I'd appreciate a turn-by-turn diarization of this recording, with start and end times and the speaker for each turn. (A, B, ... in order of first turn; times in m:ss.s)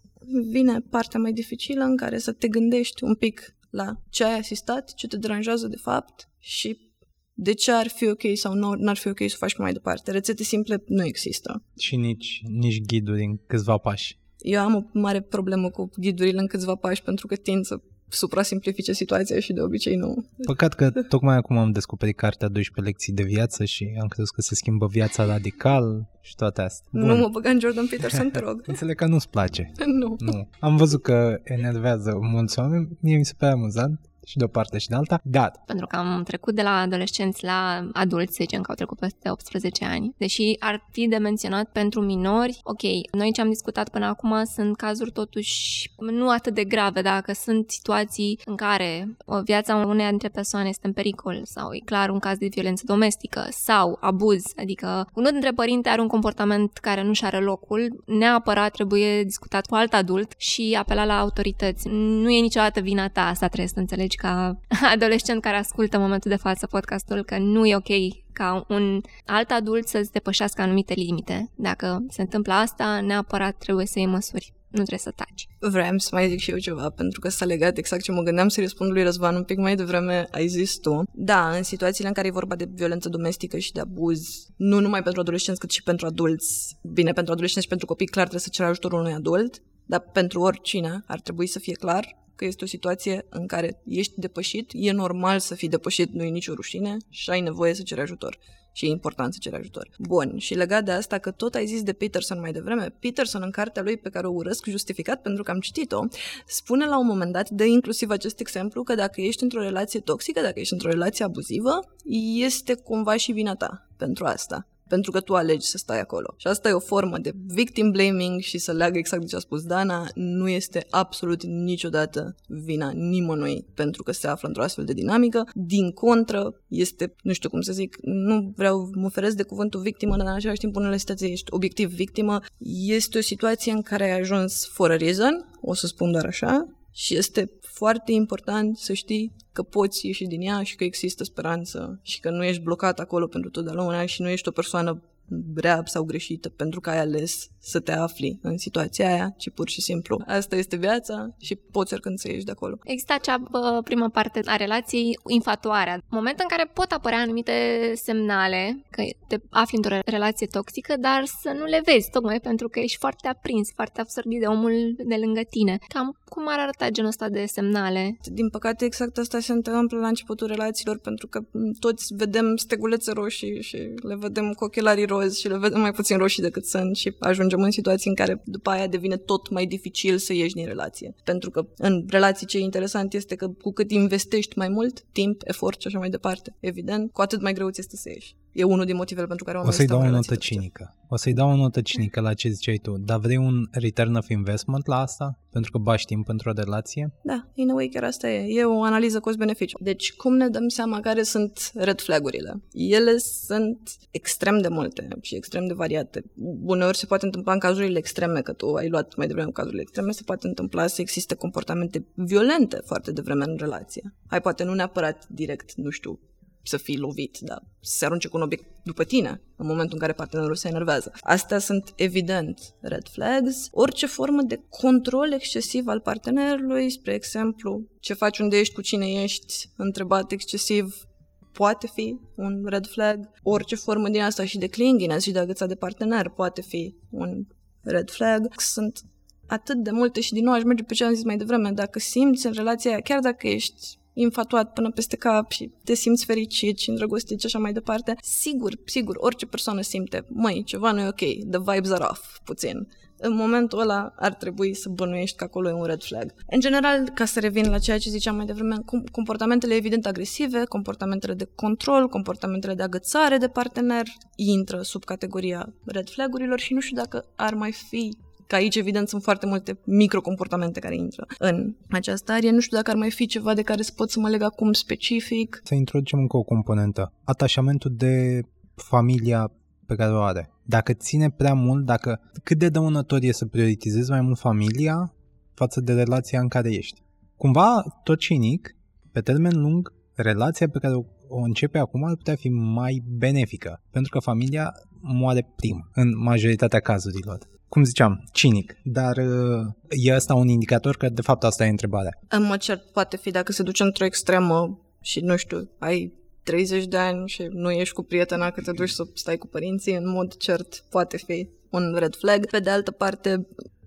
0:00.3-0:11.6 A
0:11.8-0:14.2 B
0:14.4-0:20.5 A
0:20.5-0:27.3 B
0:26.9-0:28.8 A
0:28.1-0:35.6 B
0:29.8-0:30.4 A
0:35.7-1:15.5 C
1:15.6-2:32.8 A
2:32.9-2:48.2 C
2:48.2-3:10.6 A
3:09.6-3:17.1 B
3:17.2-3:51.0 A
3:51.5-4:35.6 A
4:35.7-5:02.2 B
5:02.3-5:13.4 A